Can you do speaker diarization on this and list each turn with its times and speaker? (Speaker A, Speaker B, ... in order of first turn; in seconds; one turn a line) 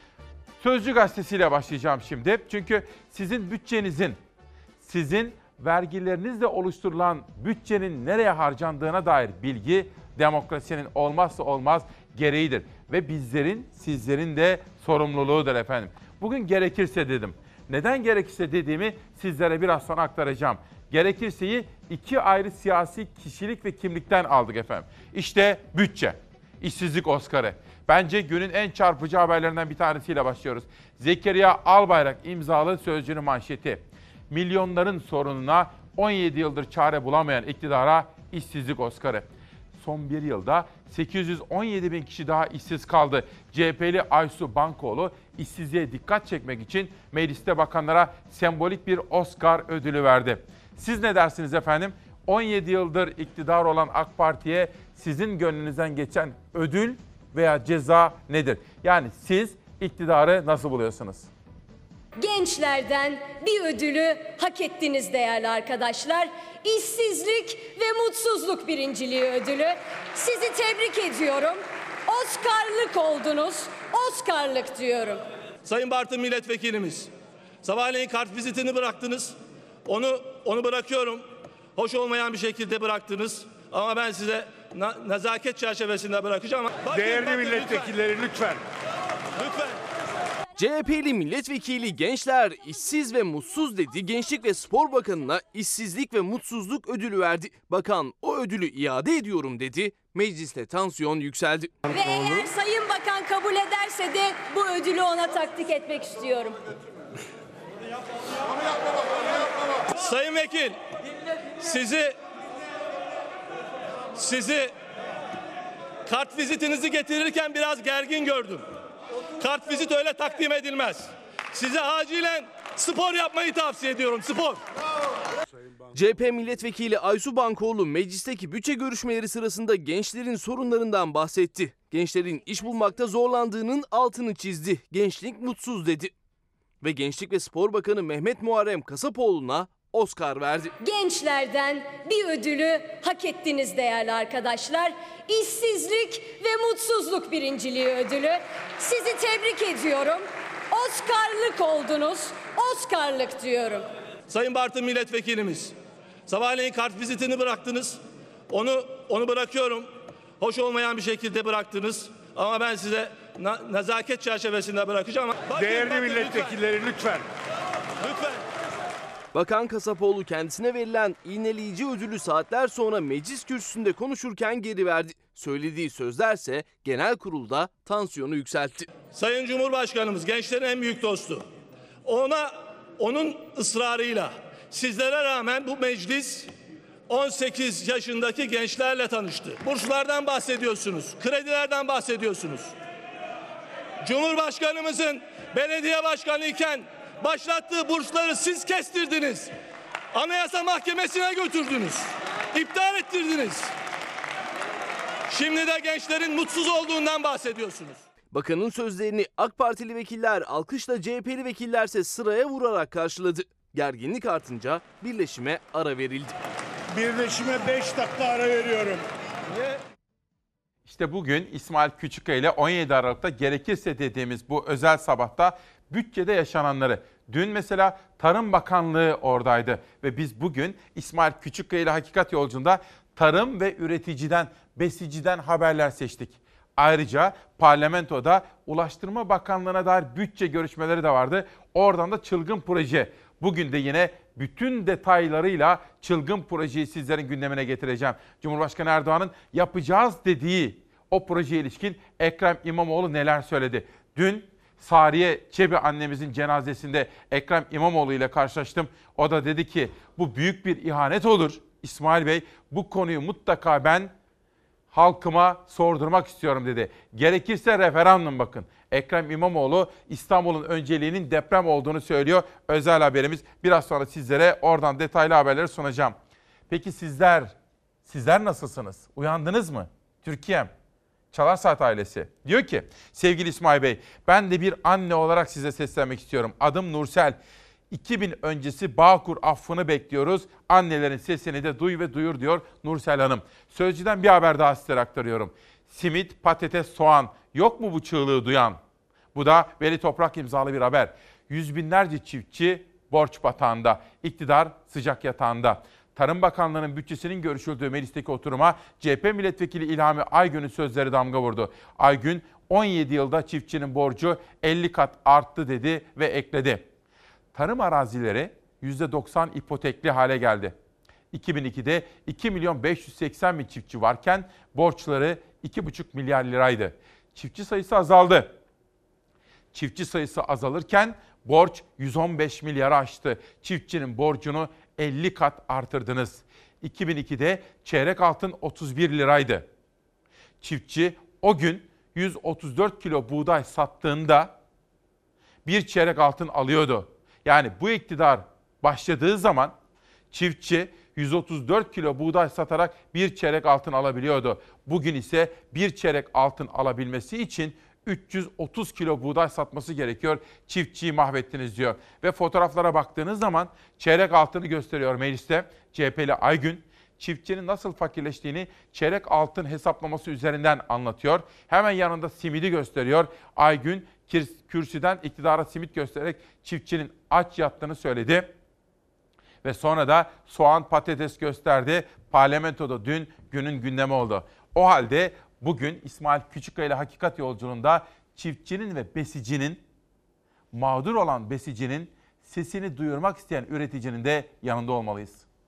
Speaker A: 0.6-4.2
Speaker A: 4.8-39.3
Speaker A: 39.8-61.3
Speaker B: 62.2-75.2
Speaker C: 75.6-77.1
Speaker C: 77.6-88.1
Speaker D: 87.1-88.6
Speaker C: 89.4-89.8
Speaker E: 90.6-101.7
Speaker B: 101.9-106.6
Speaker C: 109.9-110.8
Speaker C: 111.6-112.1
Speaker C: 114.2-114.7
Speaker C: 116.1-118.7
Speaker C: 119.4-124.6
Speaker E: 125.9-136.1
Speaker E: 136.8-140.7
Speaker B: 140.8-153.9
Speaker C: 154.3-155.7
Speaker C: 156.3-166.7
Speaker D: 165.6-167.2
Speaker C: 168.0-168.4
Speaker E: 169.3-178.9
Speaker C: 179.1-181.5
Speaker C: 182.1-186.5
Speaker C: 187.1-192.7
Speaker C: 194.0-199.5
Speaker C: 200.1-203.7
Speaker C: 205.3-208.0
Speaker E: 208.3-216.4
Speaker A: 220.9-264.1
Speaker A: 264.9-276.2
Speaker A: 276.7-277.5
Speaker A: 278.1-280.7
Speaker A: 281.3-287.4
Speaker A: 287.9-298.8
Speaker A: 299.4-316.8
Speaker A: 317.5-320.8
Speaker A: 321.3-328.5
Speaker A: 329.7-339.7
Speaker A: 340.6-344.5
Speaker A: 345.6-349.7
Speaker A: 350.3-378.5
Speaker A: 379.6-389.8
Speaker A: 390.7-395.5